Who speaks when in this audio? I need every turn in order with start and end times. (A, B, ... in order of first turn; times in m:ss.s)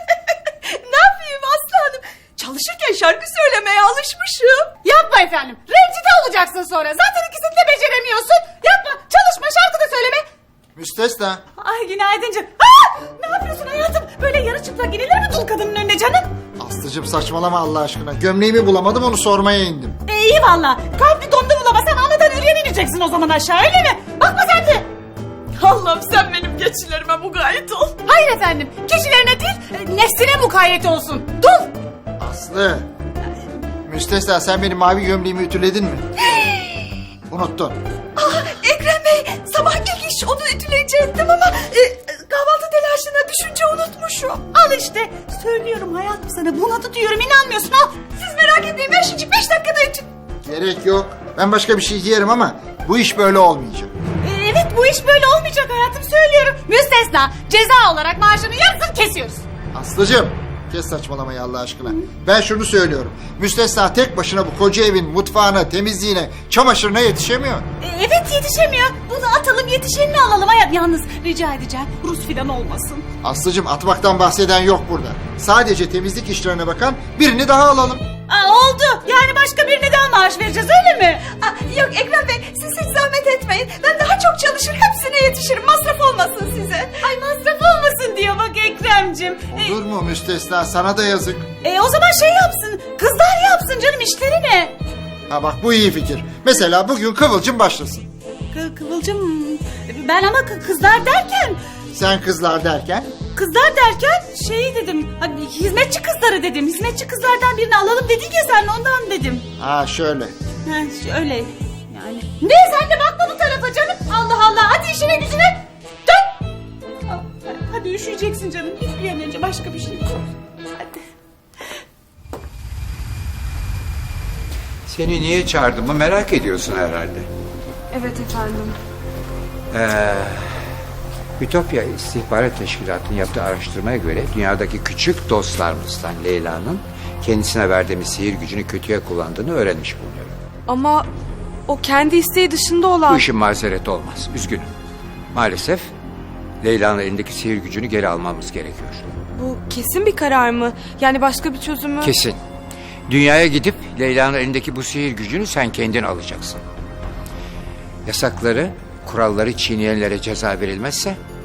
0:00.5-0:04.8 A
0:04.8-0:10.2 B
0:10.8-0:11.4 C
0:11.6-0:16.3 B
0:16.6-0:20.0 C
0:20.0-0:24.8 B
0:25.6-0:28.0 A
0:28.0-0:31.6 B
0:32.2-0:32.8 C
0:33.9-0:36.1 C
0:36.2-0:36.9 A
0:37.3-0:37.8 C
0:38.2-0:44.4 A
0:44.5-0:48.0 B
0:48.1-0:50.0 A
0:50.4-0:53.9 C
0:54.2-0:59.4 B
0:59.7-1:07.6 C
1:07.8-1:13.0 B
1:13.2-1:18.0 C
1:18.3-1:21.2 B
1:21.2-1:27.1 A
1:27.0-1:29.8 B
1:29.5-1:31.5 C
1:31.6-1:34.7 B
1:35.3-1:38.1 C
1:38.5-1:41.6 B
1:41.9-1:43.1 C
1:43.3-1:49.4 B
1:49.6-1:50.3 C
1:50.6-1:56.3 B
1:57.1-2:01.0 B
2:04.9-2:07.3 D
2:07.9-2:08.8 E
2:09.7-2:10.7 D
2:11.4-2:20.3 D
2:20.7-2:21.1 E
2:21.7-2:23.3 E
2:23.1-2:24.7 D
2:25.3-2:25.9 D
2:26.6-2:29.1 D
2:29.3-2:32.1 E
2:32.0-2:32.4 D
2:33.1-2:36.6 D
2:38.0-2:41.2 D